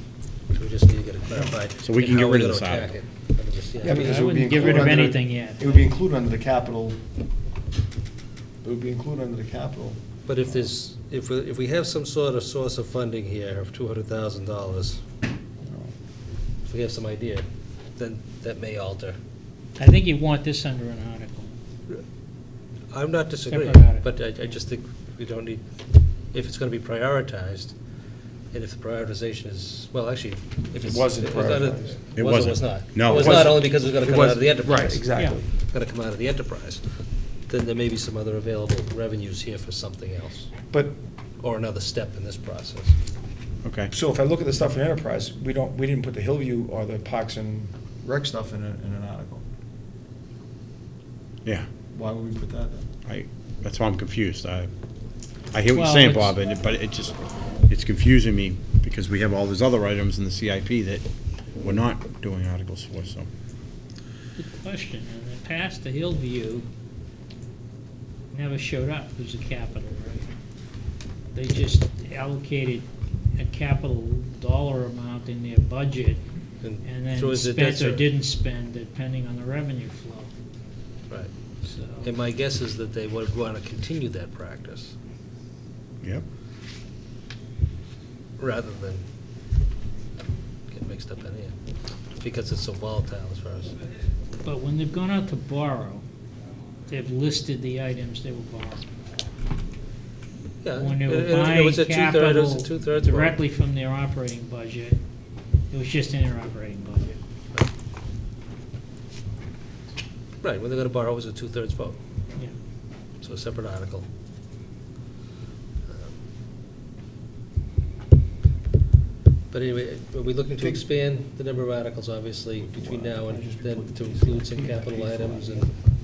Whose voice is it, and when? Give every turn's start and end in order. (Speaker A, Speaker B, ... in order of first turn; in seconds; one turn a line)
Speaker A: 0.5-4.8
Speaker B: 1.8-3.0
Speaker C: 3.8-7.0
Speaker D: 3.8-5.9
Speaker C: 8.6-10.7
Speaker A: 10.3-15.0
Speaker C: 15.6-15.9
Speaker A: 16.6-19.2
Speaker D: 19.8-21.5
Speaker A: 22.9-25.6
Speaker D: 23.5-24.1
Speaker A: 26.3-27.8
Speaker A: 28.5-36.9
Speaker C: 30.7-32.0
Speaker B: 32.2-33.5
Speaker C: 33.1-35.5
Speaker A: 37.5-40.5
Speaker A: 41.4-43.0
Speaker B: 43.6-43.9
Speaker C: 43.9-49.4
Speaker C: 51.9-52.9
Speaker B: 53.1-54.7
Speaker B: 55.5-57.2
Speaker D: 55.7-56.4
Speaker B: 57.7-61.0
Speaker B: 61.6-63.3
Speaker D: 64.4-66.7
Speaker D: 68.3-70.3
Speaker D: 71.3-76.2
Speaker A: 76.6-78.1
Speaker D: 76.8-80.3
Speaker A: 81.1-81.3
Speaker D: 81.6-82.1
Speaker A: 82.0-85.0
Speaker A: 88.4-89.0
Speaker A: 90.7-91.6
Speaker A: 92.2-93.8
Speaker D: 94.4-96.0
Speaker D: 96.9-98.8
Speaker A: 100.6-103.4
Speaker D: 100.8-105.0
Speaker D: 105.7-107.2
Speaker A: 110.4-112.0
Speaker A: 113.2-114.1
Speaker A: 119.5-125.7
Speaker C: 120.6-120.8
Speaker C: 122.5-125.8